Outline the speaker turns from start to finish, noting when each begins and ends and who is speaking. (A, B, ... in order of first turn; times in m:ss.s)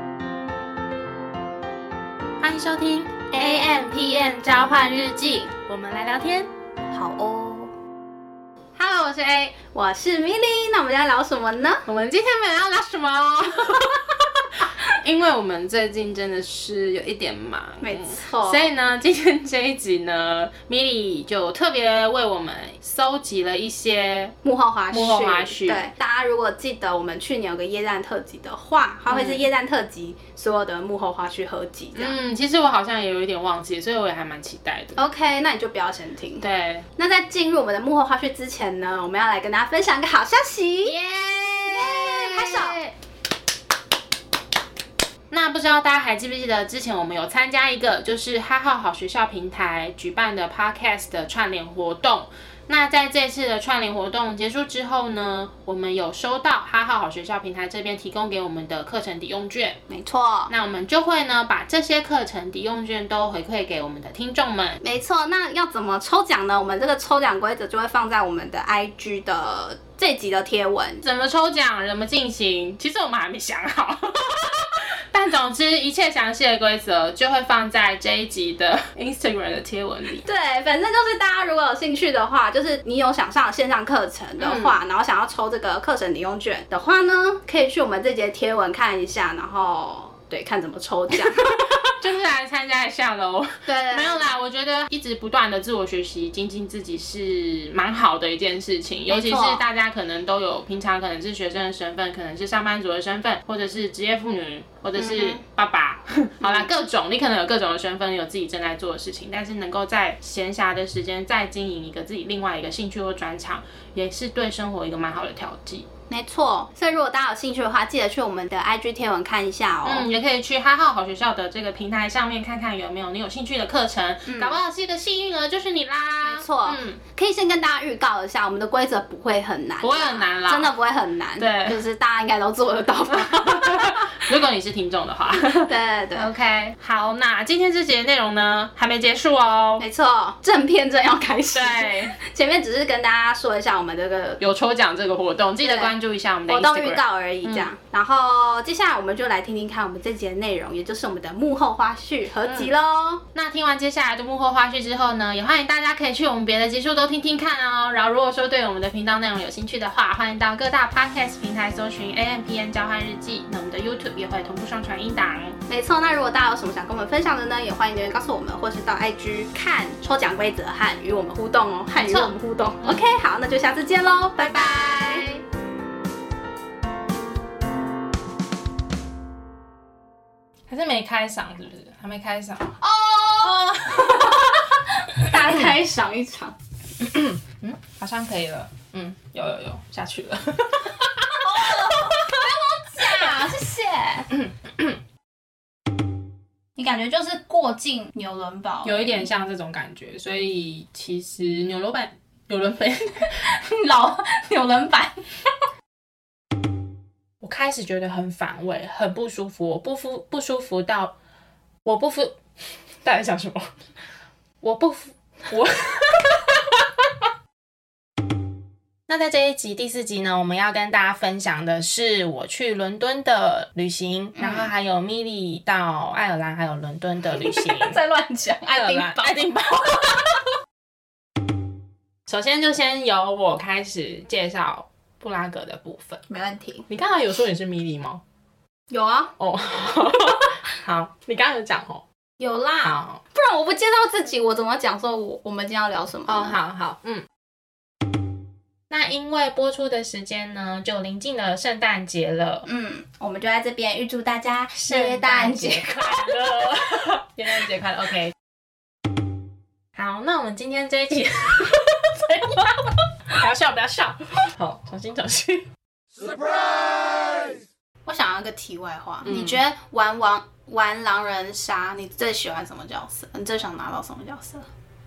0:02.4-0:06.5 A
0:03.3-0:03.8 B
0:06.9-0:07.7 B
0:08.8-0:09.6 A
0:09.7-0:11.8 B
0:11.8-0:24.4 A
0:17.8-0:18.7 B
0:24.4-0:32.2 B
0:24.9-0:25.8 A
0:29.1-0:29.4 A
0:31.9-0:35.0 A
0:35.0-0:36.4 B
0:36.4-0:36.8 A
0:37.0-0:41.0 B
0:40.8-0:42.9 A
0:41.7-0:42.8 B
0:45.3-0:59.8 A
0:59.9-1:00.5 B
1:00.5-1:04.8 A
1:04.8-1:11.0 B
1:11.0-1:20.2 A
1:20.2-1:31.7 B
1:24.4-1:24.8 A
1:31.9-1:55.9 A
1:33.6-1:34.3 B
1:39.1-1:39.6 B
1:45.0-1:45.4 B
1:46.4-1:46.7 B
1:56.1-2:00.1 B
1:59.8-2:07.0 A
2:04.2-2:04.6 B
2:06.2-2:14.2 B
2:09.8-2:10.7 A
2:11.4-2:11.8 A
2:13.3-2:19.8 A
2:15.6-2:16.3 B
2:19.8-2:24.4 B
2:21.5-2:22.2 A
2:24.4-2:27.7 A
2:25.6-2:25.9 B
2:26.5-2:33.2 B
2:32.4-2:32.7 A
2:33.3-2:45.6 A
2:45.7-2:55.2 B
2:51.9-2:53.1 A
2:54.4-2:55.4 A
3:00.7-3:02.8 A
3:02.8-3:06.6 B
3:03.4-3:04.6 A
3:07.0-3:12.3 A
3:11.3-3:14.3 B
3:16.8-3:19.3 B
3:18.8-3:23.4 A
3:23.4-3:25.4 B
3:27.4-3:31.1 A
3:31.8-3:32.4 A
3:33.0-3:33.6 A
3:34.6-3:36.6 A
3:39.1-3:48.0 A
3:44.4-3:44.7 B
3:47.3-3:49.4 B
3:48.6-3:50.5 A
3:52.3-3:56.2 A
3:56.3-3:56.9 B
3:56.9-3:58.2 A
3:58.9-3:59.3 B
3:59.4-4:02.0 A
4:02.4-4:06.6 B
4:02.8-4:03.2 A
4:06.3-4:07.2 A
4:08.9-4:12.6 A
4:12.6-4:16.2 B
4:14.8-4:18.3 A
4:19.9-4:25.7 A
4:28.0-4:34.7 B
4:29.2-4:29.6 A